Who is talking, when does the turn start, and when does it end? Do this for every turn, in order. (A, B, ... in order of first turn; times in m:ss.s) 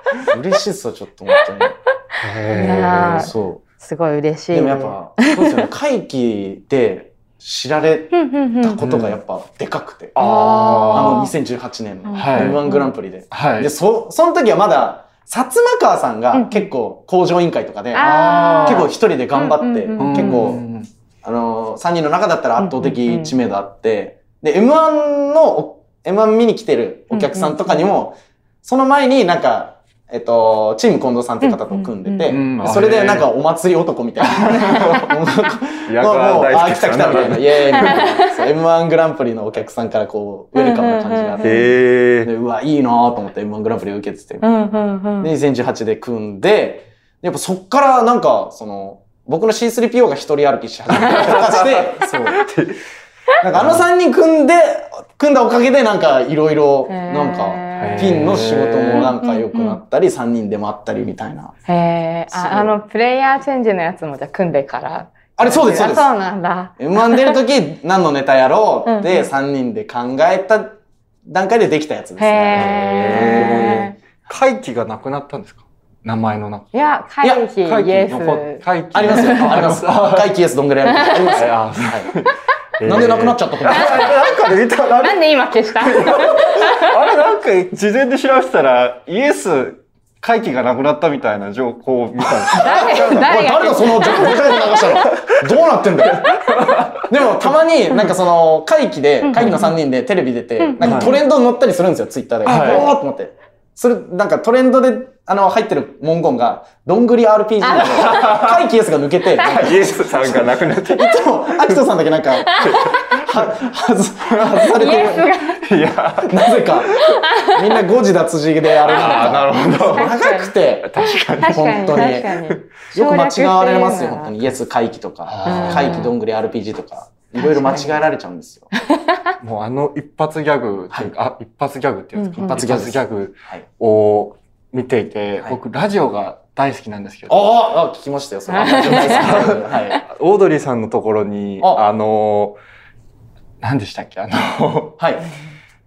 0:00.2-0:01.8 A
0:02.2-0:03.3 B
0:02.5-0:05.7 C
0:03.0-0:03.6 A
0:04.5-0:20.6 A
0:08.1-0:08.8 C
0:08.8-0:09.2 B
0:10.2-0:11.3 B
0:10.2-0:11.3 C
0:12.1-0:12.9 C
0:12.2-0:12.6 B
0:13.3-0:13.7 B
0:16.3-0:16.7 C
0:17.9-0:20.5 C
0:18.0-0:18.9 B
0:20.0-0:20.9 B
0:21.2-0:41.6 A
0:22.6-0:23.3 C
0:27.1-0:27.8 C
0:31.4-0:32.4 C
0:32.3-0:33.3 B
0:34.2-0:35.2 B
0:35.9-0:38.1 B
0:37.8-0:38.4 C
0:40.6-0:41.6 C
0:41.4-0:42.3 B
0:42.2-0:44.5 A
0:44.4-0:45.3 C
0:45.2-0:52.4 A
0:50.9-0:52.8 B
0:53.4-1:01.5 A
0:53.5-0:53.8 B
0:56.9-0:58.2 C
0:57.8-0:59.1 B
0:59.0-0:59.8 C
1:01.7-1:07.4 C
1:02.3-1:02.8 A
1:05.4-1:06.1 A
1:06.8-1:13.9 A
1:08.9-1:09.3 C
1:12.2-1:14.0 C
1:12.6-1:16.9 B
1:16.7-1:19.7 C
1:17.6-1:20.3 B
1:18.9-1:22.1 A
1:20.9-1:21.4 C
1:21.3-1:33.4 B
1:22.8-1:24.2 A
1:23.7-1:24.4 C
1:24.9-1:27.1 C
1:32.5-1:55.3 A
1:32.6-1:35.0 C
1:34.0-1:37.1 B
1:39.2-1:39.8 C
1:39.4-1:39.6 B
1:40.6-1:41.2 C
1:40.8-1:41.1 B
1:42.5-1:42.9 B
1:42.5-1:42.9 C
1:47.6-1:48.3 C
1:47.8-1:48.6 B
1:49.4-1:49.7 C
1:49.4-1:51.8 B
1:52.5-1:53.0 C
1:52.6-1:53.5 B
1:54.3-1:54.8 B
1:54.7-1:55.6 C
1:55.6-1:57.2 B
1:56.2-2:02.4 A
1:57.0-1:57.8 C
1:58.8-2:00.2 B
1:58.9-2:04.3 C
2:00.8-2:02.0 B
2:02.9-2:08.7 A
2:05.3-2:06.1 B
2:05.5-2:06.2 C
2:07.4-2:08.0 C
2:08.8-2:09.2 C
2:09.4-2:17.5 B
2:12.2-2:12.6 C
2:12.4-2:13.6 A
2:17.3-2:20.0 A
2:18.5-2:19.4 C
2:18.8-2:22.6 B
2:23.6-2:25.0 B
2:25.0-2:25.3 A